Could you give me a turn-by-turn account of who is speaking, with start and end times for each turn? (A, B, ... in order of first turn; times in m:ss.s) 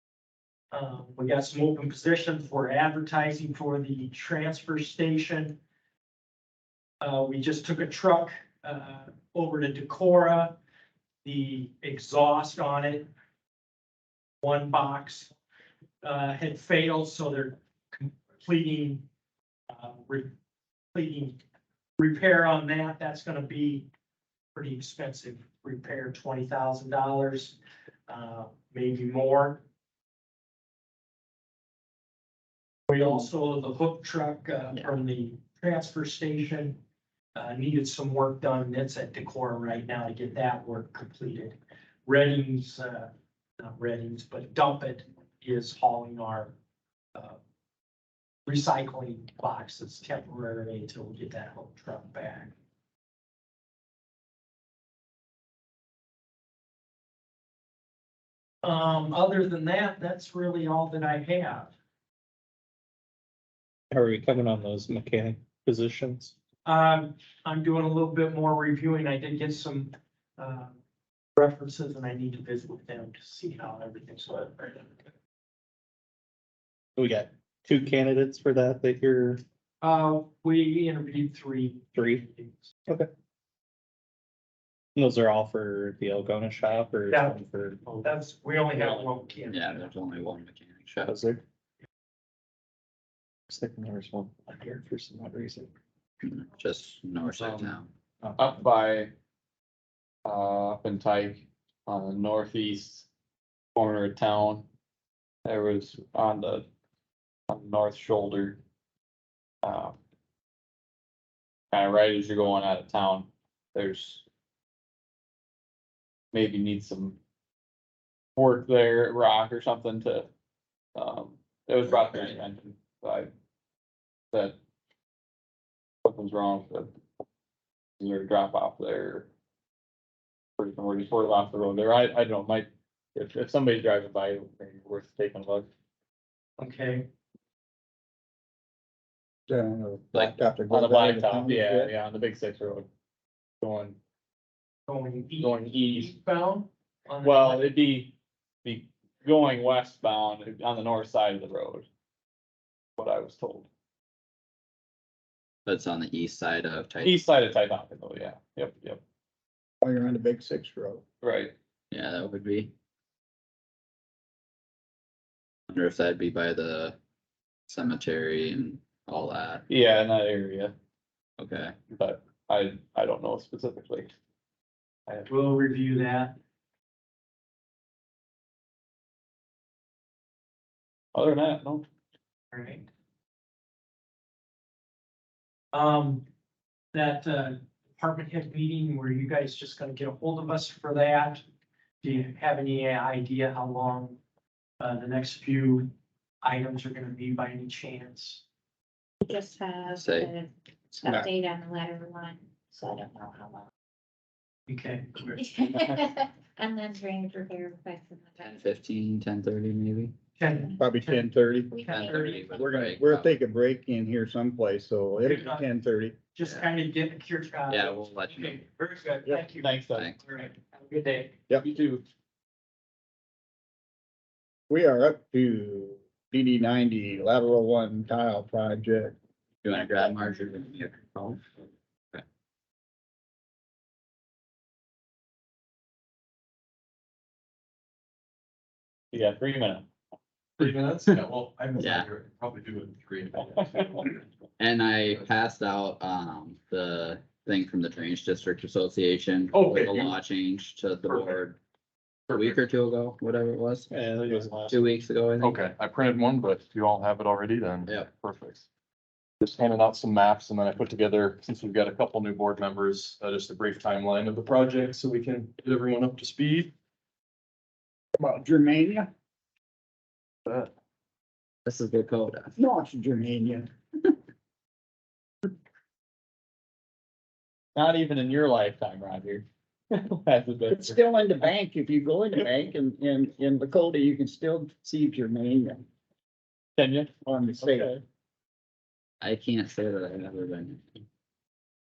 0:00.7-0:05.6 A
0:07.0-0:10.6 A
0:11.2-0:13.1 A
0:14.4-0:15.4 A
0:16.0-0:19.1 A
0:19.7-0:20.3 A
0:20.9-0:21.4 A
0:22.0-0:23.9 A
0:24.5-0:29.6 A
0:32.9-0:36.8 A
0:37.4-0:46.6 A
0:48.5-0:52.5 A
0:58.6-1:01.7 A
1:03.9-1:06.3 B
1:06.7-1:10.8 A
1:11.4-1:15.1 A
1:17.0-1:19.4 B
1:19.8-1:22.8 A
1:22.0-1:22.2 B
1:25.0-1:28.0 B
1:27.1-1:27.4 A
1:28.0-1:29.9 A
1:28.8-1:29.0 C
1:29.5-1:31.2 D
1:31.0-1:31.4 B
1:33.5-1:35.7 B
1:36.2-1:37.9 D
1:37.4-1:37.7 C
1:38.4-1:39.1 C
1:40.3-1:43.1 C
1:43.8-1:44.7 C
1:45.4-1:46.6 C
1:47.5-1:48.6 C
1:49.6-1:50.0 C
1:51.7-1:54.2 C
1:56.3-1:57.2 C
1:58.4-2:00.3 C
2:01.0-2:03.3 C
2:06.0-2:06.9 C
2:08.0-2:09.3 C
2:10.6-2:15.7 C
2:16.6-2:17.1 A
2:19.5-2:21.9 E
2:20.7-2:22.9 C
2:23.6-2:24.0 C
2:24.9-2:27.7 A
2:25.4-2:26.1 C
2:27.2-2:31.9 C
2:33.0-2:33.7 C
2:35.7-2:37.2 D
2:37.0-2:39.0 C
2:39.8-2:41.0 E
2:41.2-2:41.5 C
2:41.9-2:42.7 D
2:45.7-2:47.0 D
2:47.7-2:49.6 D
2:49.7-2:50.7 C
2:51.4-2:51.8 D
2:51.9-2:54.1 C
2:55.3-2:56.4 A
3:01.1-3:01.8 C
3:02.5-3:02.9 A
3:05.7-3:06.3 A
3:06.9-3:11.4 A
3:12.0-3:14.2 A
3:14.8-3:15.9 A
3:16.4-3:18.4 A
3:19.3-3:20.5 F
3:19.9-3:20.3 D
3:21.0-3:21.3 E
3:21.0-3:21.5 B
3:21.1-3:22.2 F
3:22.8-3:23.6 F
3:24.7-3:25.7 A
3:25.7-3:27.8 F
3:26.6-3:27.2 B
3:28.0-3:28.5 B
3:28.4-3:30.2 D
3:30.4-3:30.8 A
3:30.8-3:36.2 E
3:31.8-3:32.6 A
3:31.9-3:33.4 D
3:35.2-3:35.7 A
3:36.4-3:41.4 A
3:37.7-3:38.6 D
3:39.6-3:40.1 C
3:40.0-3:40.2 D
3:41.6-3:42.0 C
3:44.7-3:49.2 E
3:49.6-3:51.4 D
3:59.1-3:59.9 C
4:00.6-4:04.2 G
4:01.8-4:02.1 D
4:03.4-4:04.0 C
4:04.6-4:11.6 D
4:09.5-4:10.2 G
4:11.1-4:11.4 G
4:12.3-4:12.6 G
4:12.3-4:13.9 D
4:13.9-4:14.8 B
4:14.7-4:15.6 D
4:15.4-4:18.7 G
4:19.4-4:26.7 G
4:28.2-4:29.1 E
4:31.6-4:32.6 D
4:32.6-4:33.7 E
4:37.8-4:41.0 C
4:40.7-4:45.8 E
4:46.8-4:48.0 C
4:47.3-4:47.9 E
4:49.2-4:51.0 D